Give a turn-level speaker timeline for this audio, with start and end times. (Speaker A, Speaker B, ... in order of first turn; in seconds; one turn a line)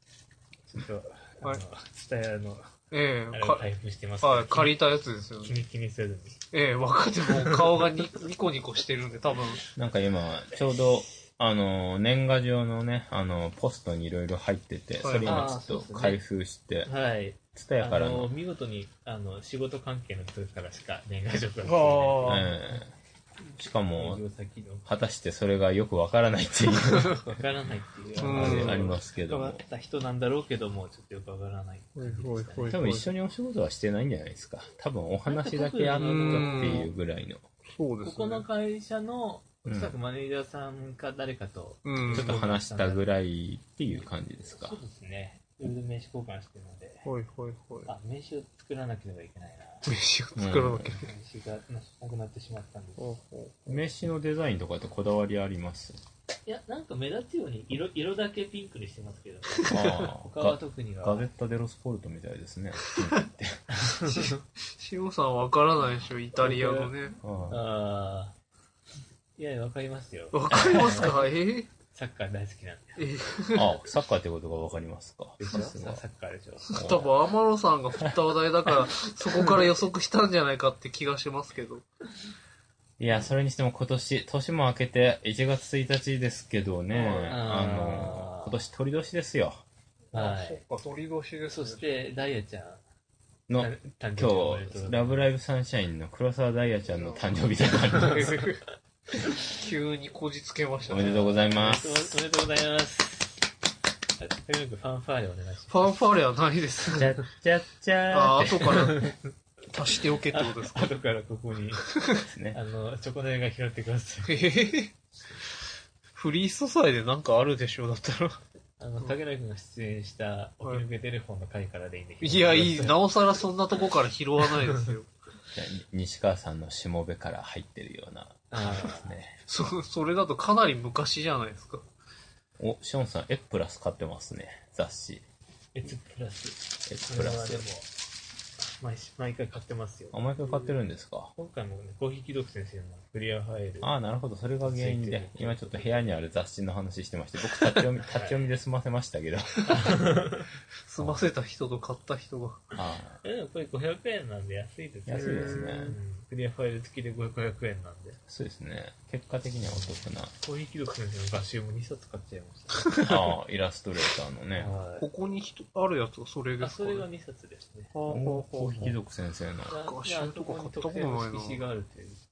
Speaker A: 0.7-2.8
Speaker B: 2.9-3.7
Speaker A: 3.3-4.8
Speaker B: 4.2-5.6
Speaker A: 5.4-6.4
Speaker B: 6.5-9.7
Speaker C: 9.8-16.9
Speaker B: 15.0-15.5
Speaker A: 15.2-16.2
Speaker A: 16.9-22.6
Speaker C: 17.6-18.3
Speaker B: 21.6-22.4
Speaker C: 22.2-22.9
Speaker C: 23.6-24.2
Speaker A: 23.9-24.9
Speaker C: 24.9-27.4
Speaker A: 27.3-32.8
Speaker B: 28.2-28.9
Speaker C: 28.2-29.6
Speaker B: 32.0-33.1
Speaker C: 32.7-37.4
Speaker A: 35.3-36.9
Speaker B: 36.0-36.9
Speaker B: 37.7-38.5
Speaker A: 38.0-43.0
Speaker C: 39.6-40.0
Speaker B: 41.9-42.4
Speaker C: 42.1-44.8
Speaker A: 43.9-47.1
Speaker B: 47.0-47.9
Speaker A: 47.9-49.9
Speaker B: 49.9-51.1
Speaker C: 50.4-51.0
Speaker A: 51.0-53.2
Speaker B: 53.0-53.7
Speaker C: 53.7-56.0
Speaker A: 56.5-61.3
Speaker B: 59.7-60.0
Speaker C: 59.7-63.7
Speaker A: 63.7-64.3
Speaker B: 64.0-67.2
Speaker A: 66.4-67.0
Speaker C: 67.2-67.6
Speaker A: 67.5-68.3
Speaker A: 69.4-71.2
Speaker B: 70.3-71.7
Speaker C: 70.5-71.1
Speaker A: 71.9-73.1
Speaker B: 73.0-73.7
Speaker C: 73.5-76.0
Speaker A: 75.4-76.8
Speaker B: 76.7-81.8
Speaker C: 76.7-77.1
Speaker C: 83.0-89.6
Speaker B: 86.9-87.4
Speaker A: 87.3-88.6
Speaker A: 90.1-90.6
Speaker B: 90.1-91.9
Speaker A: 91.5-92.8
Speaker C: 93.5-98.4
Speaker A: 93.5-95.3
Speaker B: 96.9-97.2
Speaker A: 98.0-98.5
Speaker B: 98.2-98.5
Speaker B: 99.4-101.2
Speaker C: 100.9-102.1
Speaker A: 100.9-103.5
Speaker A: 104.2-105.9
Speaker B: 105.7-107.2
Speaker C: 106.9-108.9
Speaker B: 108.1-109.2
Speaker A: 108.7-109.2
Speaker B: 109.7-110.9
Speaker A: 110.3-111.9
Speaker B: 112.0-112.2
Speaker C: 112.3-112.6
Speaker A: 112.5-114.4
Speaker B: 114.3-114.9
Speaker B: 116.2-118.4
Speaker A: 118.8-123.0
Speaker B: 122.2-125.1
Speaker C: 125.5-129.4
Speaker A: 128.5-129.2
Speaker B: 129.5-131.8
Speaker C: 132.6-135.2
Speaker A: 135.8-137.9
Speaker C: 136.9-137.7
Speaker A: 138.8-140.8
Speaker C: 140.1-141.3
Speaker A: 141.4-143.9
Speaker C: 143.8-150.1
Speaker A: 144.6-146.2
Speaker B: 147.5-147.8
Speaker A: 148.1-148.4
Speaker B: 149.6-149.8
Speaker A: 149.7-150.5
Speaker B: 150.8-152.7
Speaker C: 152.8-153.2
Speaker A: 153.2-158.2
Speaker C: 155.1-156.0
Speaker B: 155.1-156.0
Speaker C: 158.3-160.3
Speaker A: 159.6-163.0
Speaker B: 162.8-163.3
Speaker C: 163.0-164.7
Speaker A: 164.6-165.1
Speaker B: 165.0-167.1
Speaker A: 166.6-167.9
Speaker B: 167.9-168.9
Speaker C: 168.1-169.8
Speaker A: 169.7-172.2
Speaker B: 169.7-171.7